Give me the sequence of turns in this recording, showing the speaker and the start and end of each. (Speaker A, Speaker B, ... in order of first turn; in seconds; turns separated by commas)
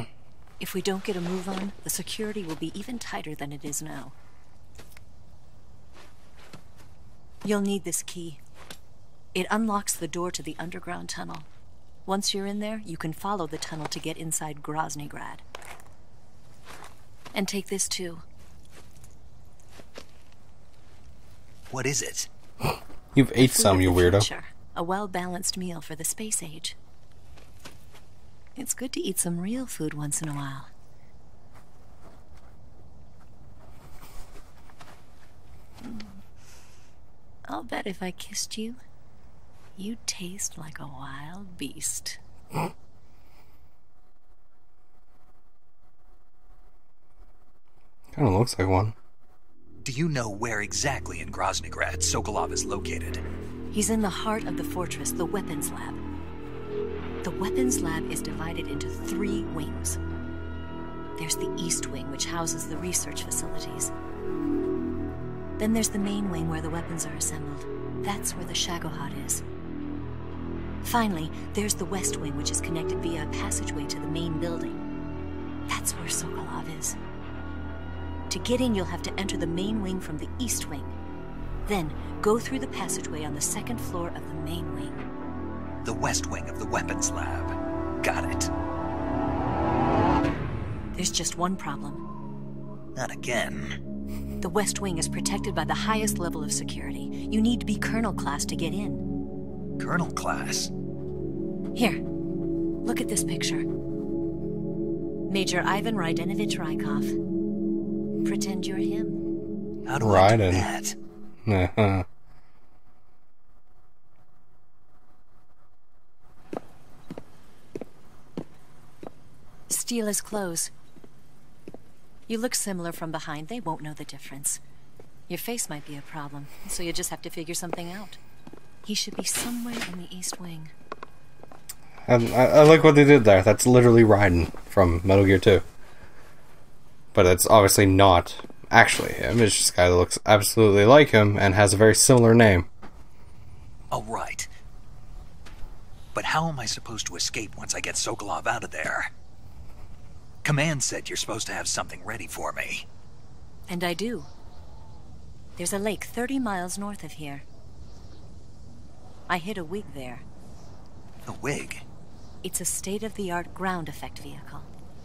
Speaker A: 0.6-4.2, Speaker A: 7.4-8.4, Speaker A: 9.3-11.5, Speaker A: 12.1-15.4, Speaker A: 17.3-18.2, Speaker B: 21.7-22.3, Speaker C: 23.1-24.3, Speaker A: 23.4-26.8, Speaker A: 28.6-30.7, Speaker A: 35.8-36.2, Speaker A: 37.5-38.8, Speaker A: 39.8-42.2, Speaker C: 48.1-49.0, Speaker B: 49.8-53.2, Speaker A: 53.7-56.0, Speaker A: 57.2-60.0, Speaker A: 61.2-63.9, Speaker A: 65.6-69.4, Speaker A: 70.8-74.8, Speaker A: 75.7-77.0, Speaker A: 78.3-81.0, Speaker A: 81.7-85.0, Speaker B: 85.8-88.5, Speaker A: 91.0-92.0, Speaker B: 93.0-93.7, Speaker A: 94.4-99.0, Speaker B: 99.8-100.7, Speaker A: 101.8-102.0, Speaker A: 102.8-103.7, Speaker A: 105.3-107.2, Speaker A: 108.2-109.2, Speaker B: 109.9-111.0, Speaker C: 110.0-110.7, Speaker C: 111.5-112.1, Speaker A: 119.7-120.7, Speaker A: 122.3-124.6, Speaker A: 125.3-128.2, Speaker A: 128.8-130.7, Speaker C: 132.1-135.7, Speaker C: 137.1-142.7, Speaker B: 143.9-144.5, Speaker B: 146.1-149.1, Speaker B: 150.4-152.9, Speaker A: 153.7-154.3, Speaker A: 155.6-157.5, Speaker A: 159.3-160.2, Speaker B: 161.3-161.8, Speaker A: 162.4-164.7